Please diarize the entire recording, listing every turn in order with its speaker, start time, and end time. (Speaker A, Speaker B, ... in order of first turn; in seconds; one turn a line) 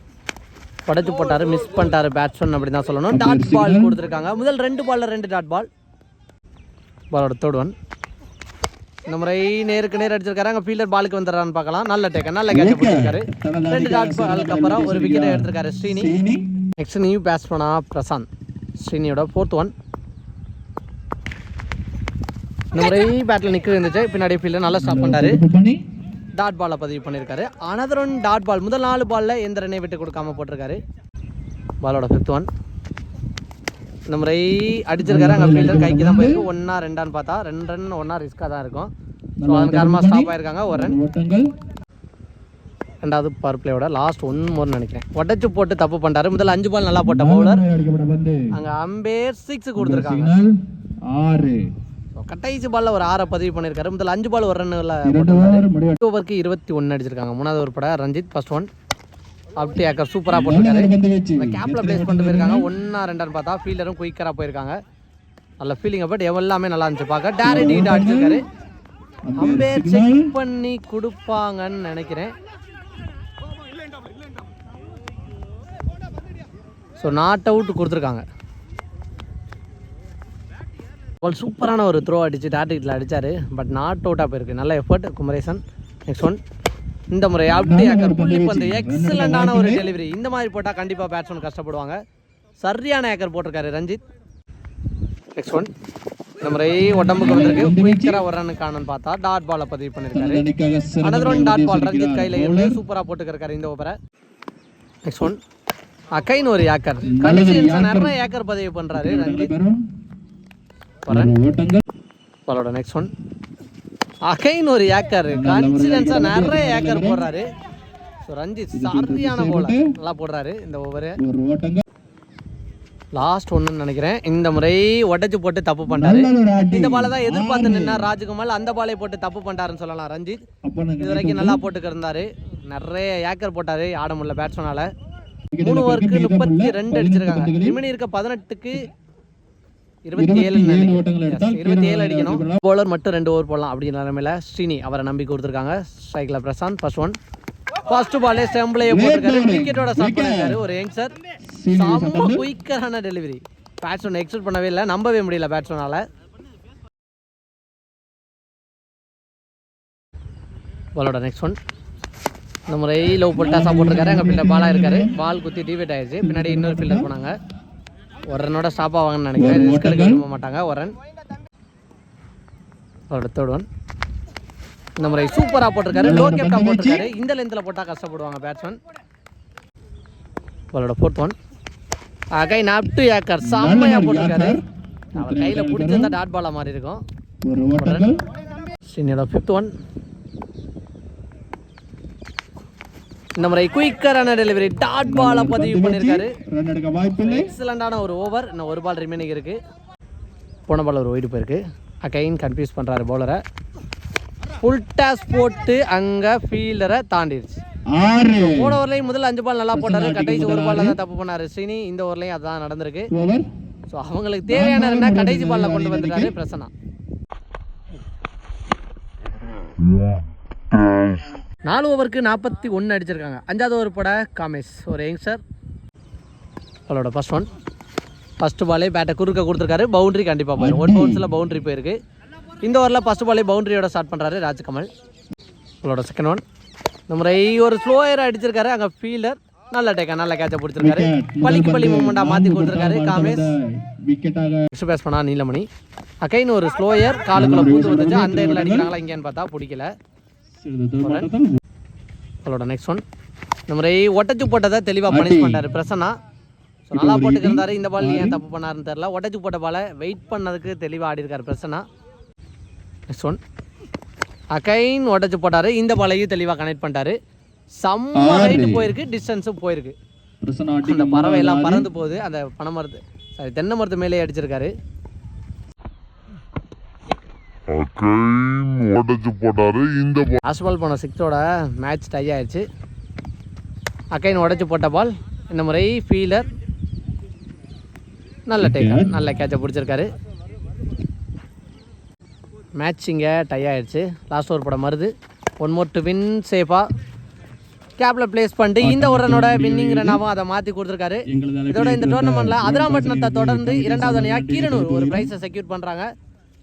Speaker A: 0.8-5.7
Speaker B: 3.1-4.0
Speaker A: 7.1-7.7
Speaker A: 9.1-16.1
Speaker B: 12.5-16.5
Speaker A: 16.8-18.3
Speaker A: 18.8-19.7
Speaker A: 22.7-25.4
Speaker B: 24.8-25.8
Speaker A: 26.4-30.8
Speaker A: 31.8-32.5
Speaker A: 34.1-38.9
Speaker B: 35.0-36.4
Speaker B: 39.4-41.5
Speaker A: 39.5-41.0
Speaker A: 43.0-47.6
Speaker B: 47.0-48.4
Speaker A: 48.5-50.3
Speaker B: 49.8-50.5
Speaker B: 51.1-51.6
Speaker A: 52.1-58.7
Speaker B: 55.0-56.0
Speaker A: 59.6-64.8
Speaker B: 60.3-62.7
Speaker A: 65.6-68.4
Speaker B: 67.4-68.4
Speaker B: 69.3-70.3
Speaker A: 69.4-72.3
Speaker A: 77.0-78.2
Speaker A: 81.2-86.4
Speaker A: 87.1-92.0
Speaker B: 87.5-89.9
Speaker A: 92.6-94.0
Speaker A: 95.3-95.7
Speaker A: 96.4-100.4
Speaker B: 96.9-98.2
Speaker B: 100.1-102.8
Speaker A: 101.0-103.9
Speaker A: 105.0-105.4
Speaker A: 106.1-109.5
Speaker B: 107.0-108.1
Speaker B: 108.9-109.8
Speaker A: 111.0-111.3
Speaker B: 111.1-111.8
Speaker A: 112.5-113.1
Speaker A: 114.3-117.5
Speaker B: 115.3-117.2
Speaker A: 118.2-121.2
Speaker B: 118.7-119.8
Speaker B: 121.2-121.8
Speaker A: 123.1-130.4
Speaker B: 125.9-128.1
Speaker B: 130.6-131.6
Speaker A: 131.0-134.9
Speaker B: 135.5-137.8
Speaker A: 135.6-138.8
Speaker A: 140.1-147.1
Speaker B: 140.2-142.6
Speaker A: 147.9-151.1
Speaker B: 148.8-150.6
Speaker B: 151.6-152.5
Speaker A: 151.7-156.0
Speaker A: 160.9-161.6
Speaker A: 162.7-167.3
Speaker B: 163.3-165.1
Speaker B: 166.2-167.1
Speaker A: 168.3-170.9
Speaker B: 169.4-170.2
Speaker A: 173.1-173.6
Speaker A: 175.0-178.8
Speaker B: 175.9-177.1
Speaker A: 180.7-181.3
Speaker A: 182.3-184.6
Speaker B: 183.4-184.6
Speaker B: 185.1-186.2
Speaker A: 185.2-187.0
Speaker B: 187.4-188.2
Speaker A: 187.8-188.1
Speaker A: 188.8-189.7
Speaker A: 193.4-196.3
Speaker B: 195.0-197.5
Speaker A: 197.2-199.6
Speaker A: 200.7-203.4
Speaker A: 204.6-207.6
Speaker B: 207.9-208.8
Speaker A: 208.4-213.1
Speaker B: 209.7-211.0
Speaker B: 213.1-213.5
Speaker A: 213.9-216.7
Speaker B: 214.5-216.3
Speaker A: 221.7-225.4
Speaker A: 226.9-227.5
Speaker A: 228.4-231.9
Speaker B: 230.6-231.3
Speaker A: 232.6-234.9
Speaker A: 235.8-236.4
Speaker A: 237.1-243.5
Speaker B: 240.8-244.7
Speaker A: 244.7-245.7
Speaker A: 246.2-249.9
Speaker B: 247.3-248.9
Speaker B: 250.6-251.5
Speaker A: 251.0-251.3
Speaker A: 252.4-253.0
Speaker A: 253.7-256.1
Speaker B: 255.1-255.6
Speaker A: 256.9-261.8
Speaker B: 256.9-258.4
Speaker A: 263.1-263.4
Speaker A: 264.5-267.1
Speaker A: 267.8-269.9
Speaker B: 268.1-268.9
Speaker B: 270.4-271.9
Speaker A: 270.8-274.7
Speaker C: 277.7-280.4
Speaker A: 280.4-282.6
Speaker A: 284.1-286.4
Speaker A: 288.5-290.1
Speaker B: 288.6-289.2
Speaker A: 292.8-296.8
Speaker A: 298.0-306.1
Speaker B: 298.8-300.2
Speaker B: 301.3-305.3